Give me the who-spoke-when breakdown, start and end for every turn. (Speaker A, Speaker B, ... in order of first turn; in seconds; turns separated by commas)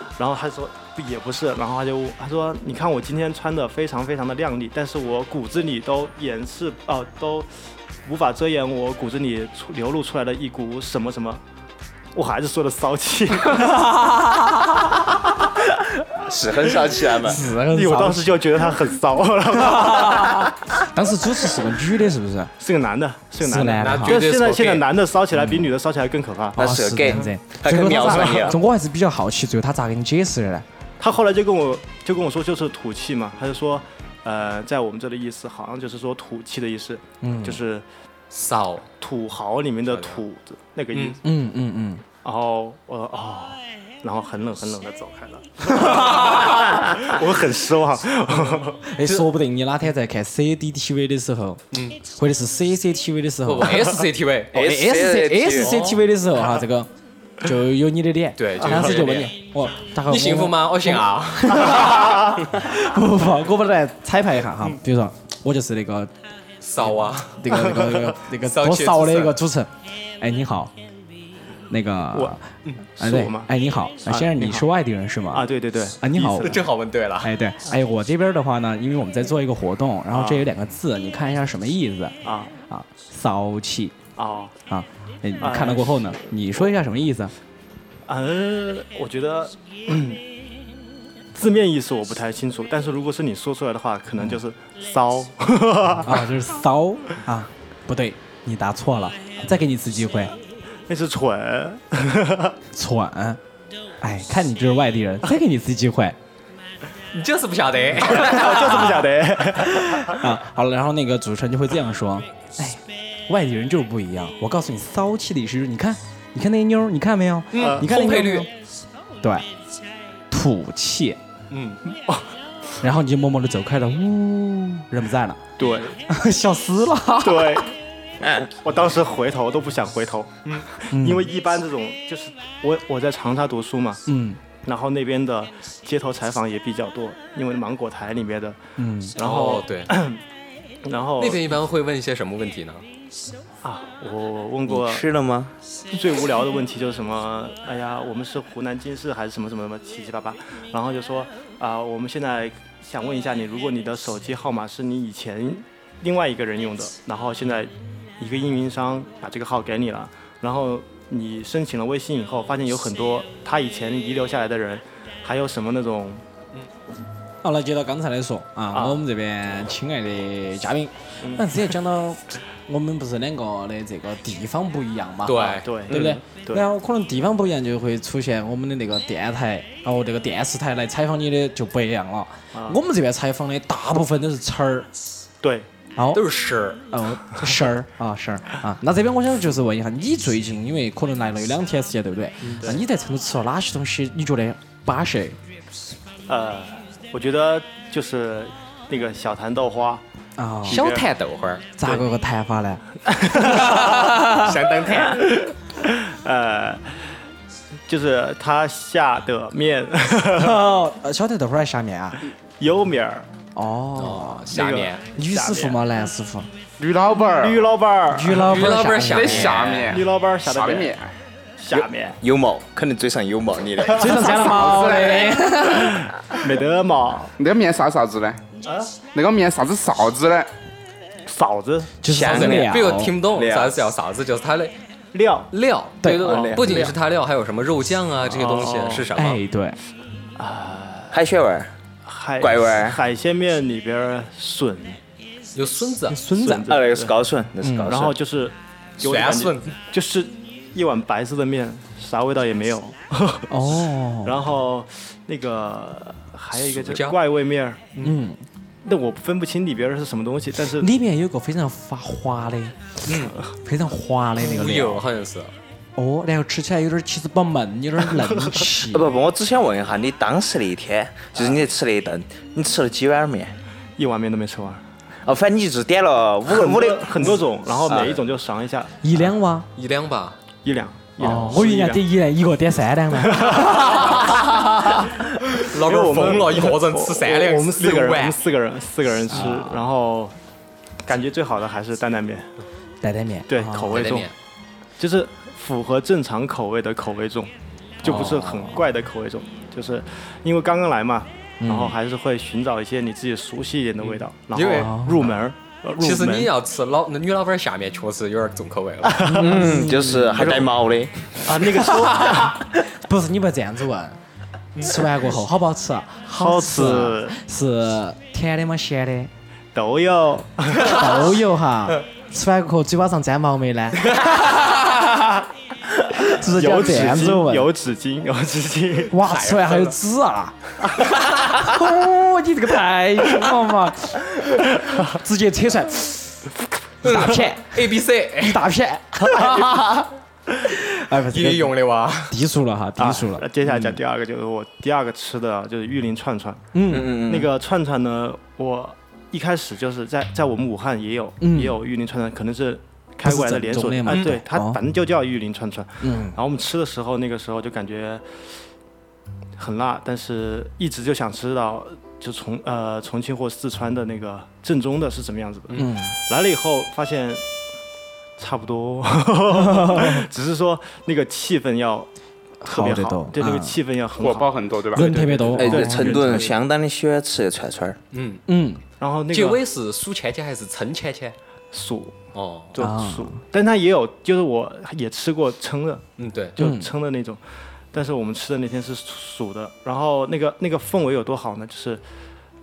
Speaker A: 0.2-7.5, Speaker A: 8.0-11.4, Speaker A: 12.1-13.9, Speaker B: 16.2-17.4, Speaker C: 17.2-18.4, Speaker A: 17.4-20.5, Speaker C: 19.7-22.5, Speaker A: 22.6-26.6, Speaker C: 23.4-24.2, Speaker D: 23.8-24.9, Speaker C: 25.4-25.7, Speaker B: 26.6-28.6, Speaker C: 26.6-30.6, Speaker A: 27.8-28.5, Speaker A: 31.0-37.9, Speaker C: 37.2-37.6, Speaker D: 38.3-38.9, Speaker A: 39.0-41.2, Speaker D: 39.9-40.2, Speaker D: 40.9-41.2, Speaker C: 41.2-42.0, Speaker A: 42.2-48.8, Speaker C: 48.8-54.0, Speaker D: 51.7-52.0, Speaker D: 53.5-54.5, Speaker B: 54.5-55.8, Speaker C: 54.5-56.9, Speaker D: 55.6-56.0, Speaker C: 57.4-66.1, Speaker D: 58.4-59.3, Speaker D: 60.0-62.2, Speaker D: 66.6-67.7, Speaker C: 67.3-70.7, Speaker D: 68.4-69.4, Speaker C: 71.7-72.5, Speaker A: 73.0-73.5, Speaker C: 73.0-76.6, Speaker A: 74.0-74.7, Speaker A: 75.3-76.6, Speaker D: 76.4-77.3, Speaker C: 77.2-82.2, Speaker A: 80.1-80.5, Speaker A: 82.2-82.5, Speaker C: 82.7-84.0, Speaker A: 84.2-84.5, Speaker C: 84.7-87.3, Speaker A: 85.4-86.2, Speaker A: 88.1-90.2, Speaker A: 91.3-96.2, Speaker C: 96.0-100.3, Speaker A: 100.9-102.5, Speaker C: 102.7-103.4, Speaker C: 104.0-106.2, Speaker D: 107.1-109.1, Speaker A: 108.0-110.2, Speaker C: 109.6-118.5, Speaker D: 117.5-118.5, Speaker A: 117.5-117.8, Speaker C: 120.3-121.2, Speaker D: 121.5-121.8, Speaker A: 121.9-122.3, Speaker C: 122.8-125.4, Speaker A: 125.6-126.0, Speaker C: 126.1-127.6, Speaker A: 127.2-127.7, Speaker B: 128.2-128.5, Speaker A: 128.5-134.0, Speaker C: 130.9-131.3, Speaker C: 134.1-134.4, Speaker A: 134.6-138.6, Speaker C: 138.8-139.2, Speaker A: 139.2-140.2, Speaker D: 139.2-140.0, Speaker A: 140.8-141.6, Speaker D: 141.2-142.8, Speaker A: 143.6-145.1, Speaker B: 144.7-145.5, Speaker A: 145.9-166.2, Speaker C: 167.4-184.9, Speaker A: 168.7-169.0, Speaker A: 171.2-171.5, Speaker D: 175.2-176.0, Speaker A: 175.3-176.6, Speaker A: 182.5-182.8, Speaker A: 185.4-185.7, Speaker C: 185.9-186.2, Speaker D: 186.1-186.8, Speaker C: 186.9-195.4, Speaker A: 192.5-192.8, Speaker A: 196.3-200.0, Speaker C: 200.4-200.8, Speaker A: 200.6-201.1, Speaker D: 200.7-202.0, Speaker C: 201.8-204.5, Speaker A: 203.1-204.1, Speaker D: 203.4-205.2, Speaker A: 204.9-207.0, Speaker A: 207.9-210.6, Speaker C: 210.4-212.2, Speaker A: 212.6-213.3, Speaker C: 213.6-214.5, Speaker D: 213.9-215.0, Speaker A: 214.5-215.8, Speaker C: 215.1-216.5, Speaker E: 216.8-217.7, Speaker A: 217.3-218.5, Speaker C: 218.1-219.6, Speaker D: 218.3-220.0, Speaker E: 219.1-221.1, Speaker A: 219.9-220.9, Speaker A: 221.6-222.2, Speaker B: 222.2-224.2, Speaker C: 223.9-226.1, Speaker A: 224.1-224.4, Speaker E: 224.2-225.5, Speaker A: 225.9-227.3, Speaker E: 227.4-228.4, Speaker A: 228.7-228.9, Speaker E: 229.1-230.5, Speaker A: 231.2-231.9, Speaker C: 232.0-233.1, Speaker B: 232.1-233.8, Speaker D: 232.2-234.7, Speaker A: 235.1-235.5, Speaker D: 235.5-239.4, Speaker C: 236.0-236.3, Speaker B: 236.2-236.9, Speaker A: 236.2-236.9, Speaker A: 238.2-239.1, Speaker C: 239.1-239.8, Speaker A: 240.3-241.2, Speaker B: 241.1-241.7, Speaker A: 242.0-245.0, Speaker B: 242.4-243.0, Speaker D: 245.5-246.2, Speaker C: 246.1-246.7, Speaker A: 246.2-247.1, Speaker B: 246.7-248.2, Speaker C: 247.6-247.9, Speaker A: 247.8-253.5, Speaker D: 249.0-249.7, Speaker C: 253.5-254.3, Speaker A: 254.2-258.0, Speaker D: 256.6-257.2, Speaker C: 258.0-258.4, Speaker A: 258.8-260.9, Speaker C: 260.8-265.0, Speaker D: 263.1-263.3, Speaker A: 263.1-263.4, Speaker D: 264.4-265.5, Speaker C: 266.0-269.1, Speaker A: 268.2-268.6, Speaker B: 268.9-273.6, Speaker A: 274.0-274.8, Speaker B: 275.2-277.3, Speaker A: 276.5-278.9, Speaker B: 277.9-278.2, Speaker C: 279.0-279.7, Speaker D: 279.8-280.4, Speaker A: 280.6-282.0, Speaker C: 281.2-284.1, Speaker A: 283.3-284.4, Speaker D: 283.9-284.4, Speaker D: 285.5-288.4, Speaker A: 285.7-290.3, Speaker C: 289.3-289.8, Speaker A: 291.0-292.5, Speaker C: 293.0-294.0, Speaker A: 293.5-294.3, Speaker D: 293.9-294.3, Speaker A: 295.0-306.5, Speaker D: 298.0-298.5, Speaker C: 298.1-298.8, Speaker C: 301.6-301.9, Speaker D: 304.0-305.0, Speaker C: 304.7-305.3, Speaker D: 306.0-309.3, Speaker A: 309.0-309.8, Speaker B: 309.3-311.4, Speaker C: 309.3-310.5, Speaker A: 310.3-310.7, Speaker A: 311.4-312.6, Speaker C: 311.8-314.2, Speaker C: 314.8-319.3, Speaker A: 316.3-317.4, Speaker A: 319.7-321.3, Speaker C: 320.8-324.5, Speaker C: 326.2-327.7, Speaker A: 326.4-329.1, Speaker C: 329.1-330.6, Speaker D: 329.2-329.9, Speaker C: 331.4-336.4, Speaker C: 337.0-337.8, Speaker D: 337.0-338.6, Speaker C: 338.4-340.1, Speaker D: 339.4-339.8, Speaker C: 340.6-341.7, Speaker D: 341.3-342.4, Speaker C: 342.3-343.4, Speaker A: 343.0-358.4, Speaker C: 346.7-347.2, Speaker B: 346.9-347.5, Speaker C: 351.4-351.8, Speaker C: 353.2-354.8, Speaker C: 356.0-356.4, Speaker A: 359.6-367.4, Speaker C: 365.8-366.1, Speaker A: 368.4-372.1, Speaker C: 369.6-370.2, Speaker C: 372.6-373.8, Speaker A: 372.6-376.6, Speaker E: 374.2-375.3, Speaker C: 374.9-376.5, Speaker B: 375.6-378.0, Speaker D: 378.1-378.4, Speaker C: 378.5-378.8, Speaker A: 379.0-379.6, Speaker D: 379.3-381.4, Speaker A: 381.7-382.2, Speaker D: 382.3-382.7, Speaker A: 382.7-386.0, Speaker C: 382.8-383.4, Speaker D: 386.2-386.6, Speaker A: 386.6-387.4, Speaker C: 386.6-386.9, Speaker A: 387.9-392.0